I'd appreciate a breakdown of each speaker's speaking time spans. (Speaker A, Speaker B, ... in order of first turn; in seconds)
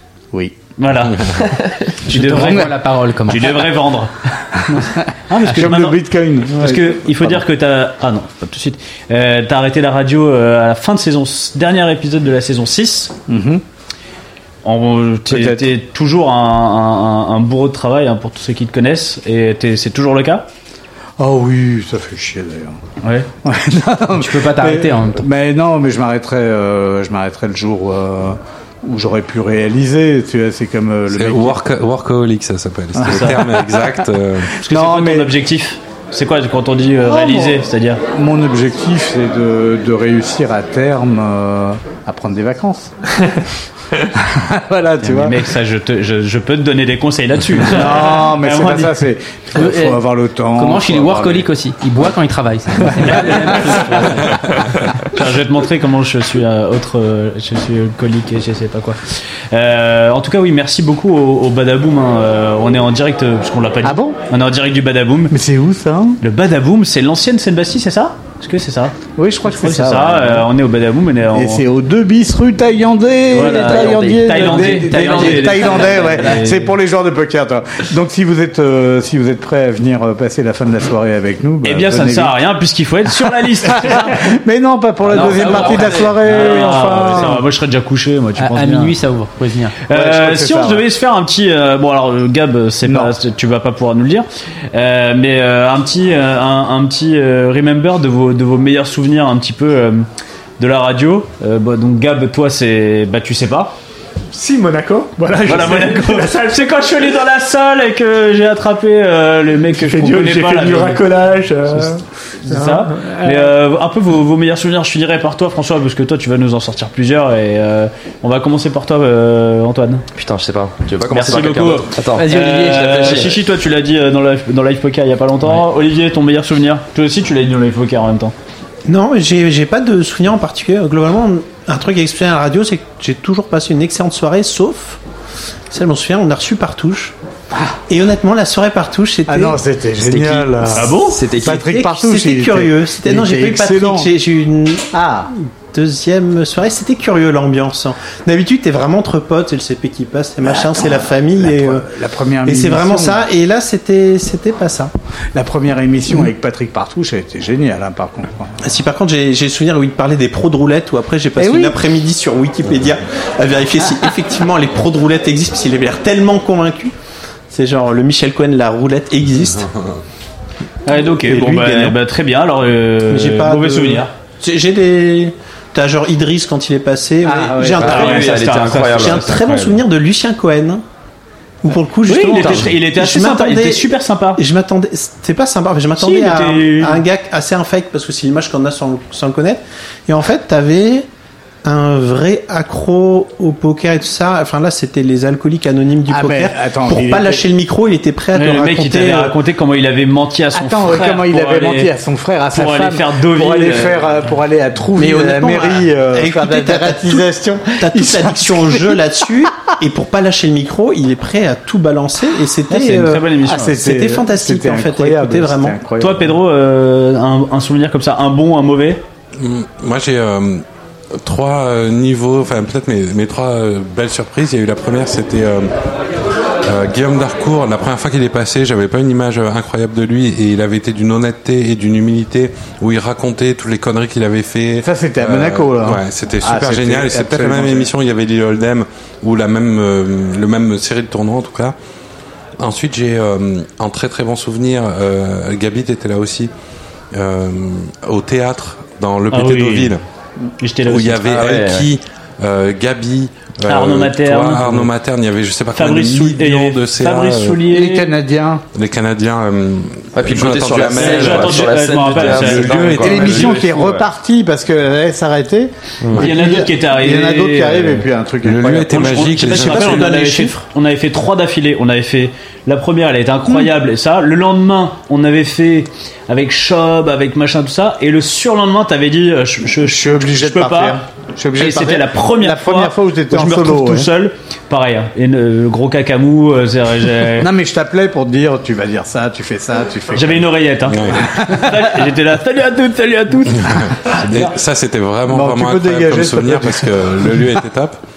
Speaker A: 0.3-0.6, 2.1-2.8, 4.5-7.4, 13.3-13.6, 15.3-15.7, 21.2-22.8, 23.4-31.6, 33.0-33.9, 34.6-35.3, 37.0-42.9, 44.1-45.4, 47.6-51.4, 52.8-54.0, 63.8-64.2, 65.3-66.2, 69.2-70.5, 71.3-82.4, 83.3-87.4, 89.9-90.8, 92.8-93.1, 139.3-144.1, 144.9-145.3, 150.7-153.2, 155.3-158.6, 161.4-161.8, 177.2-178.0, 196.1-197.4, 200.5-209.0, 213.4-216.3, 234.8-237.9, 257.7-258.6, 263.0-269.2, 273.5-273.7, 279.8-284.1, 287.3-291.8, 295.3-297.6
Speaker B: 0.8-1.3, 2.0-4.1, 5.3-13.1, 14.6-20.4, 23.0-23.3, 33.1-33.4, 34.6-38.0, 45.0-48.9, 53.0-54.3, 55.1-65.3, 66.2-71.6, 73.3-76.7, 81.6-84.2, 85.1-88.9, 89.9-100.0, 100.6-103.7, 105.4-111.0, 112.4-120.0, 121.1-128.3, 140.7-141.2, 170.9-174.1, 177.8-179.6, 182.1-184.4, 186.0-187.0, 198.3-201.9, 202.5-204.0, 212.7-213.8, 216.0-219.0, 249.3-249.9, 250.6-251.3, 253.7-254.9, 255.8-258.1, 261.0-263.5, 266.2-268.1, 268.9-281.0, 281.6-287.5, 290.1-294.5
Speaker C: 1.5-1.8, 120.1-123.3, 141.0-141.6, 177.8-179.8, 251.2-251.9, 260.1-263.6
Speaker D: 2.1-3.7, 24.1-25.2, 49.5-50.0, 50.5-54.2, 73.3-76.4, 85.0-87.3, 88.4-89.7, 122.1-123.3
Speaker E: 31.1-34.5, 219.4-220.6, 221.2-225.7, 226.6-241.7, 242.6-246.5, 247.1-250.0, 250.9-257.6, 258.7-263.8, 268.4-270.2, 290.9-291.2, 293.6-297.9
Speaker F: 104.3-107.0, 109.7-113.5
Speaker G: 128.9-135.0, 135.7-137.1, 137.9-139.6, 141.2-144.9, 145.7-151.8, 152.4-154.9, 158.6-166.9, 167.5-169.7, 170.9-171.9, 173.1-180.8, 181.6-191.1, 191.6-199.3, 204.9-215.8, 269.5-270.5